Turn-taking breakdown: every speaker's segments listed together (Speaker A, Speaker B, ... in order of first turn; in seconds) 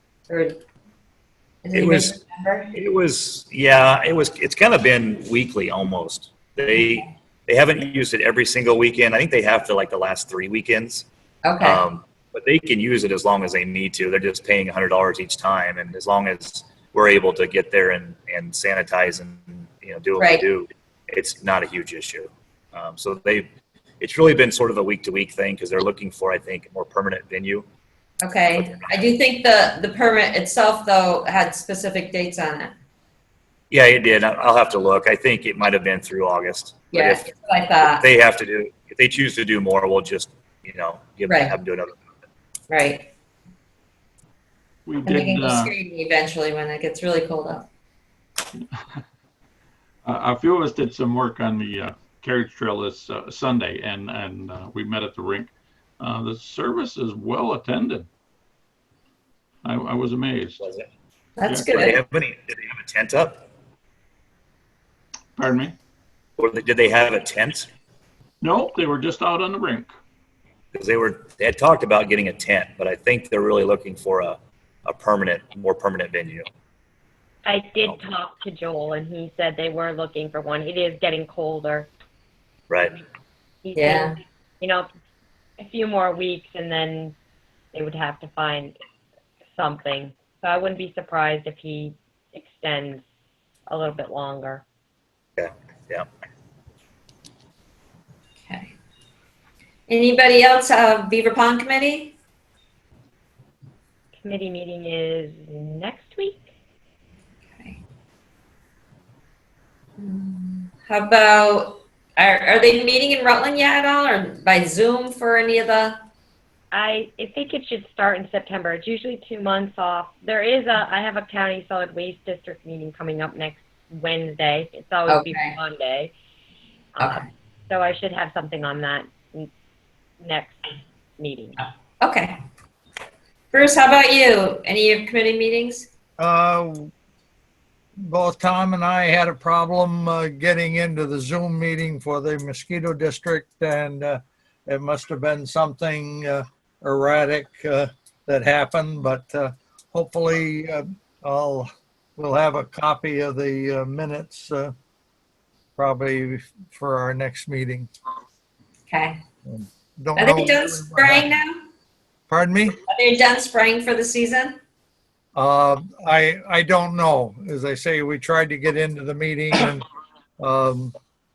Speaker A: 0.3-0.6, 1.6-2.8, 6.7-7.1, 11.4-11.8, 20.2-20.4, 28.2-32.7, 36.9-38.0, 41.2-41.5, 42.7-43.1, 45.0-47.7, 61.4-62.0, 83.8-84.2, 98.4-98.7, 99.9-102.1, 110.0-116.0, 125.1-125.6, 132.0-132.4, 133.5-135.9, 158.9-159.2, 160.2-161.6, 162.9-164.6
Speaker B: 1.7-2.1, 2.7-11.1, 11.6-23.5, 24.0-27.7, 28.6-29.0, 33.7-42.0, 60.6-60.9, 61.8-63.5, 66.4-67.7, 70.7-76.5, 82.7-83.0, 95.4-96.1
Speaker C: 44.9-45.7, 50.0-58.1, 59.6-60.7, 61.5-62.0, 65.3-65.8, 68.4-69.9
Speaker D: 77.5-81.9, 83.6-84.9, 85.6-87.1, 87.7-88.8, 89.5-93.0, 93.7-94.6, 104.2-106.4, 116.7-126.1, 126.9-129.5, 130.2-131.6
Speaker E: 136.2-136.9, 138.0-154.7, 155.8-157.9, 159.4-161.4, 162.3-162.8, 165.3-169.8, 170.4-170.9